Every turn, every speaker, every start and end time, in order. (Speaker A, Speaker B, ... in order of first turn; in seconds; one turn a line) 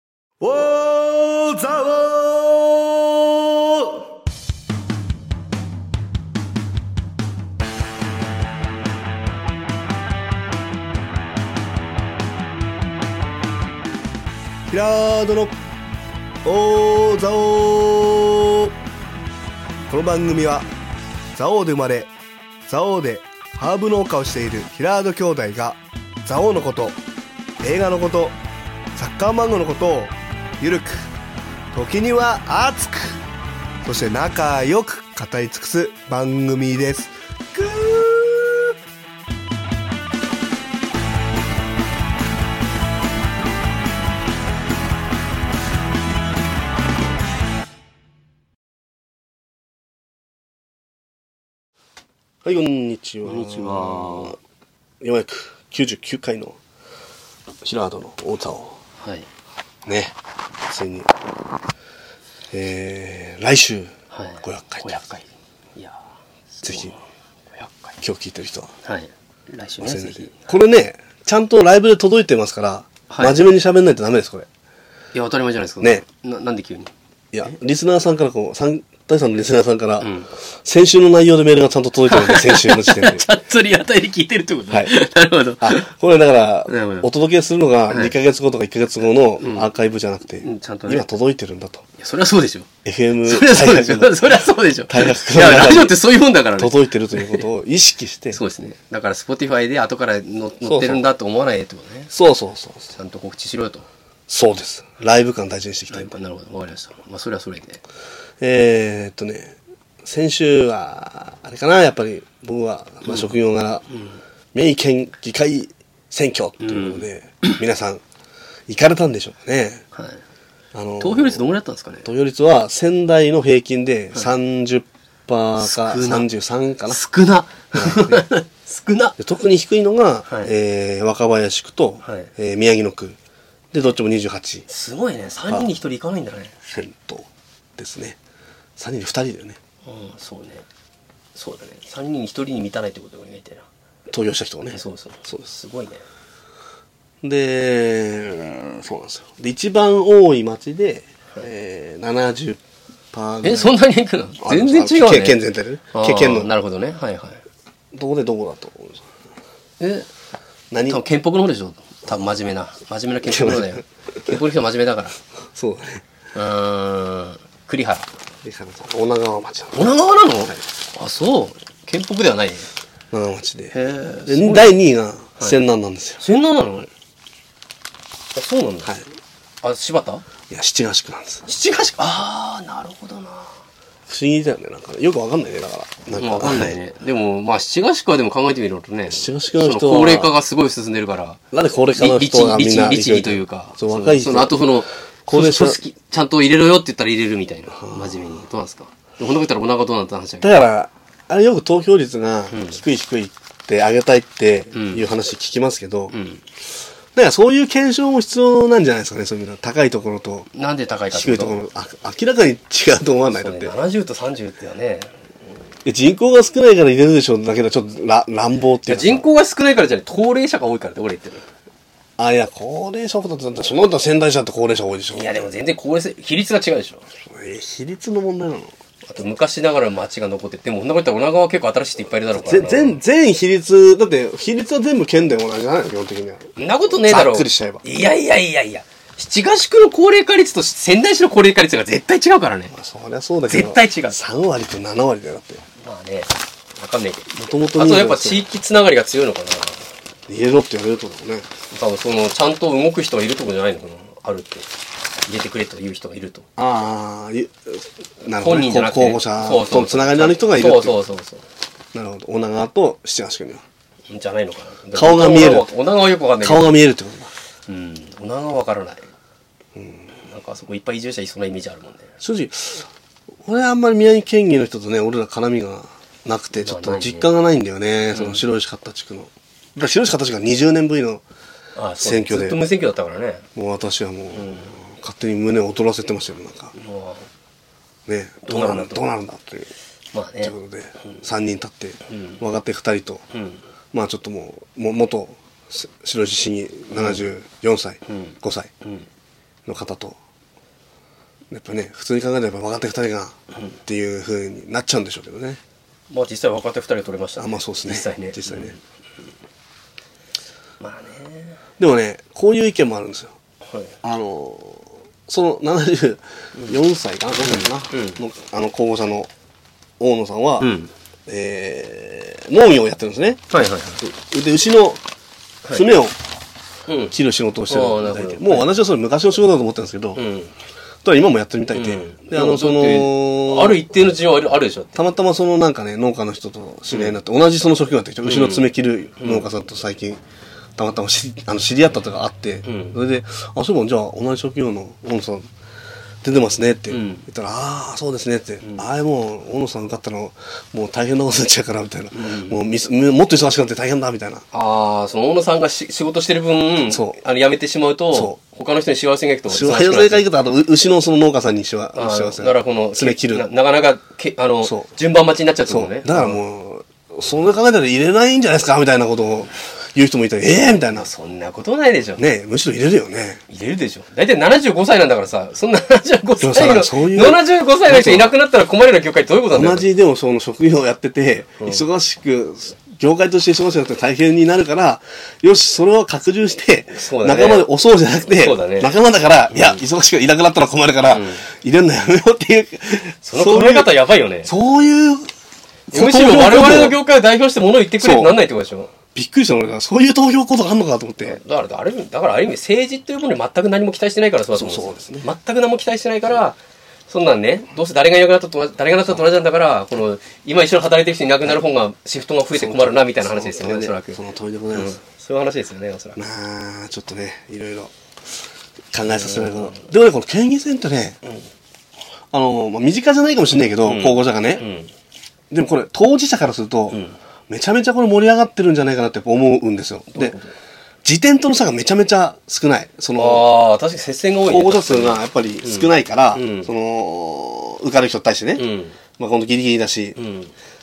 Speaker A: 0.4-4.0
Speaker A: 14.7-15.5
Speaker A: 16.4-18.7
Speaker A: 19.9-20.7
Speaker A: 21.3-22.1
Speaker A: 22.7-27.0
Speaker A: 27.6-28.3
Speaker A: 28.9-31.1
Speaker A: 31.7-33.2
Speaker A: 33.8-38.8
Speaker A: 52.4-54.4
Speaker B: 53.2-54.4
Speaker A: 55.0-56.6
Speaker A: 57.6-58.8
Speaker B: 59.0-59.3
Speaker A: 59.8-60.1
Speaker A: 60.7-61.1
Speaker A: 62.5-63.9
Speaker B: 64.1-66.0
Speaker A: 64.4-65.0
Speaker B: 66.6-67.0
Speaker A: 66.6-66.9
Speaker B: 67.5-68.0
Speaker A: 68.0-68.7
Speaker B: 68.8-70.5
Speaker A: 69.8-74.5
Speaker B: 73.1-73.5
Speaker B: 75.1-76.9
Speaker A: 77.3-80.1
Speaker B: 80.0-80.3
Speaker A: 80.6-83.2
Speaker B: 82.1-85.9
Speaker A: 84.7-84.9
Speaker A: 85.6-91.8
Speaker B: 86.7-87.1
Speaker B: 87.9-88.2
Speaker B: 89.4-89.7
Speaker B: 90.4-91.1
Speaker B: 92.0-92.7
Speaker A: 92.8-96.0
Speaker B: 93.2-97.5
Speaker A: 96.6-98.4
Speaker B: 98.3-102.1
Speaker A: 100.6-101.0
Speaker A: 102.1-102.9
Speaker B: 102.9-103.9
Speaker A: 104.3-106.1
Speaker B: 105.9-107.8
Speaker A: 108.4-113.8
Speaker B: 113.9-114.2
Speaker A: 114.5-118.0
Speaker B: 116.6-117.6
Speaker A: 118.7-119.8
Speaker B: 119.9-120.2
Speaker A: 120.7-121.4
Speaker B: 121.0-122.1
Speaker A: 122.0-127.0
Speaker B: 125.6-126.3
Speaker B: 126.9-129.2
Speaker A: 127.7-128.2
Speaker A: 129.2-133.2
Speaker B: 132.0-132.3
Speaker A: 133.7-134.7
Speaker B: 134.7-136.5
Speaker A: 136.7-138.2
Speaker A: 138.8-139.6
Speaker B: 139.8-140.7
Speaker B: 141.3-143.6
Speaker A: 144.1-145.5
Speaker B: 144.7-146.0
Speaker A: 147.2-152.6
Speaker A: 153.1-153.8
Speaker B: 153.4-155.4
Speaker A: 154.4-156.5
Speaker B: 155.9-157.4
Speaker A: 157.9-159.1
Speaker B: 159.8-160.1
Speaker A: 160.7-161.0
Speaker B: 160.9-165.2
Speaker A: 163.2-163.8
Speaker A: 165.5-166.0
Speaker B: 166.3-168.1
Speaker A: 168.4-169.9
Speaker B: 169.7-172.7
Speaker A: 173.1-176.2
Speaker B: 173.7-174.8
Speaker B: 176.2-176.9
Speaker B: 178.3-178.9
Speaker B: 179.6-180.2
Speaker A: 180.5-181.4
Speaker B: 181.4-183.5
Speaker A: 184.1-186.8
Speaker B: 186.1-191.4
Speaker A: 189.1-190.3
Speaker A: 191.5-194.7
Speaker B: 191.9-200.6
Speaker A: 195.2-195.8
Speaker A: 197.8-198.3
Speaker A: 200.4-206.1
Speaker B: 202.5-202.8
Speaker B: 204.7-205.0
Speaker B: 206.1-206.4
Speaker A: 207.1-210.5
Speaker B: 210.5-211.6
Speaker A: 211.1-213.7
Speaker B: 213.3-215.1
Speaker A: 215.8-219.2
Speaker B: 218.9-221.4
Speaker A: 222.2-225.5
Speaker B: 225.1-227.0
Speaker A: 227.2-228.7
Speaker B: 229.1-233.0
Speaker A: 232.3-237.8
Speaker B: 236.6-242.7
Speaker A: 242.7-245.6
Speaker B: 243.5-244.2
Speaker B: 245.8-249.8
Speaker A: 247.3-248.5
Speaker A: 250.3-251.5
Speaker B: 251.7-254.7
Speaker B: 255.3-256.5
Speaker A: 256.6-261.0
Speaker B: 258.4-261.4
Speaker A: 261.9-263.6
Speaker B: 264.1-266.8
Speaker A: 264.9-265.7
Speaker A: 266.4-267.3
Speaker B: 267.7-269.1
Speaker A: 269.8-270.0
Speaker B: 270.2-272.1
Speaker A: 272.2-272.9
Speaker A: 273.4-281.2
Speaker B: 276.6-277.3
Speaker B: 278.1-278.4
Speaker B: 281.8-283.4
Speaker A: 282.0-282.6
Speaker A: 283.5-286.7
Speaker B: 284.3-284.7
Speaker B: 286.7-287.3
Speaker A: 288.1-289.7
Speaker B: 288.4-289.0
Speaker B: 290.1-290.5
Speaker A: 290.4-293.2
Speaker B: 292.1-292.4
Speaker B: 293.3-293.6
Speaker A: 293.9-298.7
Speaker B: 296.9-297.2
Speaker B: 298.1-299.1
Speaker A: 299.6-300.2
Speaker A: 301.5-305.6
Speaker B: 306.1-308.8
Speaker A: 307.4-308.8
Speaker B: 310.8-311.6
Speaker A: 311.8-313.3
Speaker B: 313.6-313.9
Speaker A: 314.0-319.3
Speaker B: 317.4-318.2
Speaker A: 320.0-320.7
Speaker B: 320.6-320.9
Speaker A: 321.3-323.4
Speaker B: 323.5-324.0
Speaker A: 324.0-325.0
Speaker A: 325.7-326.1
Speaker B: 326.9-327.1
Speaker A: 327.1-330.2
Speaker B: 327.7-328.7
Speaker B: 330.1-330.5
Speaker A: 331.0-333.8
Speaker B: 331.7-335.0
Speaker A: 334.9-340.2
Speaker B: 336.9-337.2
Speaker B: 338.2-339.5
Speaker A: 340.8-345.5
Speaker B: 342.6-343.0
Speaker A: 346.2-354.4
Speaker B: 346.9-347.2
Speaker B: 352.1-352.6
Speaker B: 354.5-360.2
Speaker A: 356.9-357.1
Speaker A: 358.1-358.4
Speaker A: 359.5-363.5
Speaker B: 361.9-366.4
Speaker A: 365.7-371.1
Speaker B: 370.9-372.2
Speaker A: 372.2-373.4
Speaker B: 373.5-379.9
Speaker A: 376.4-378.3
Speaker A: 379.5-395.3
Speaker B: 381.6-381.8
Speaker B: 386.9-387.7
Speaker B: 388.2-388.9
Speaker B: 389.5-389.8
Speaker B: 391.1-391.4
Speaker B: 393.2-394.5
Speaker A: 395.9-397.0
Speaker B: 395.9-398.9
Speaker A: 398.0-398.4
Speaker A: 399.1-401.4
Speaker B: 401.2-414.2
Speaker A: 404.5-405.2
Speaker A: 412.5-415.0
Speaker B: 414.7-416.2
Speaker A: 416.2-417.9
Speaker A: 418.9-421.2
Speaker B: 419.1-419.9
Speaker A: 422.3-424.6
Speaker B: 423.8-424.9
Speaker A: 425.5-430.4
Speaker B: 426.9-427.2
Speaker B: 430.1-430.5
Speaker A: 431.0-433.4
Speaker B: 433.1-436.7
Speaker A: 434.4-440.2
Speaker B: 438.6-439.0
Speaker B: 440.2-440.5